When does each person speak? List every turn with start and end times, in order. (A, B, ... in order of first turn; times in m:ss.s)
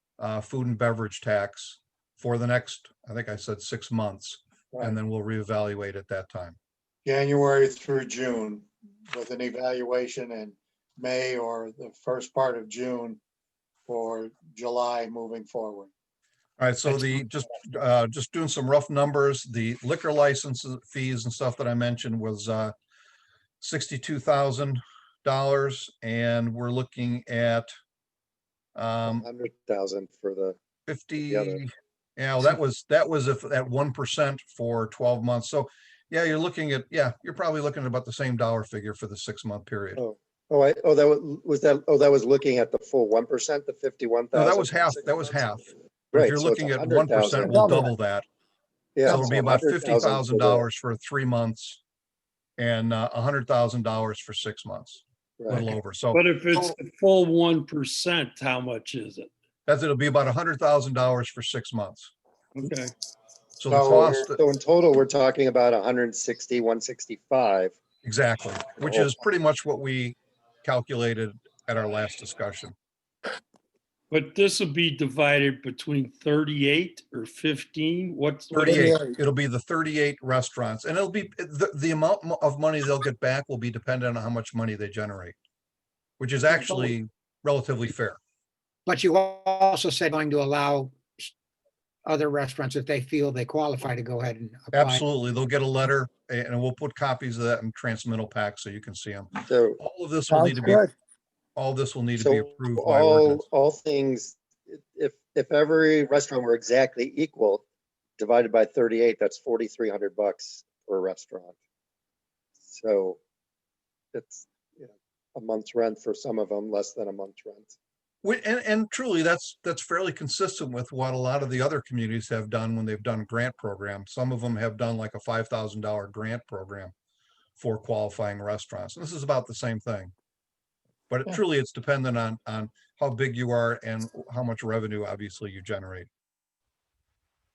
0:00.2-0:06.6 A
0:04.7-0:05.0 B
0:07.0-0:13.2 B
0:13.9-0:15.9 B
0:16.6-0:22.7 A
0:16.9-0:17.2 B
0:23.6-0:27.7 A
0:28.8-0:29.2 A
0:29.0-0:30.6 C
0:30.9-0:40.0 A
0:31.2-0:31.6 C
0:40.0-0:47.9 C
0:44.3-0:48.2 A
0:49.0-0:50.7 C
0:49.0-0:51.8 A
0:52.6-0:56.8 A
0:55.4-0:55.7 C
0:56.1-0:59.3 D
0:59.7-1:02.1 A
1:02.5-1:02.9 D
1:03.6-1:04.4 A
1:03.7-1:07.8 C
1:08.0-1:12.7 A
1:08.8-1:09.2 C
1:14.1-1:19.0 D
1:18.5-1:25.4 A
1:18.6-1:19.1 C
1:26.2-1:28.2 A
1:28.9-1:31.3 E
1:32.0-1:35.0 E
1:34.7-1:40.9 A
1:39.5-1:39.8 C
1:41.6-1:43.4 A
1:42.2-1:47.6 C
1:48.2-1:51.6 C
1:52.6-1:53.2 C
1:54.1-1:57.7 C
1:58.2-2:06.9 A
2:07.6-2:10.1 A
2:11.1-2:16.1 A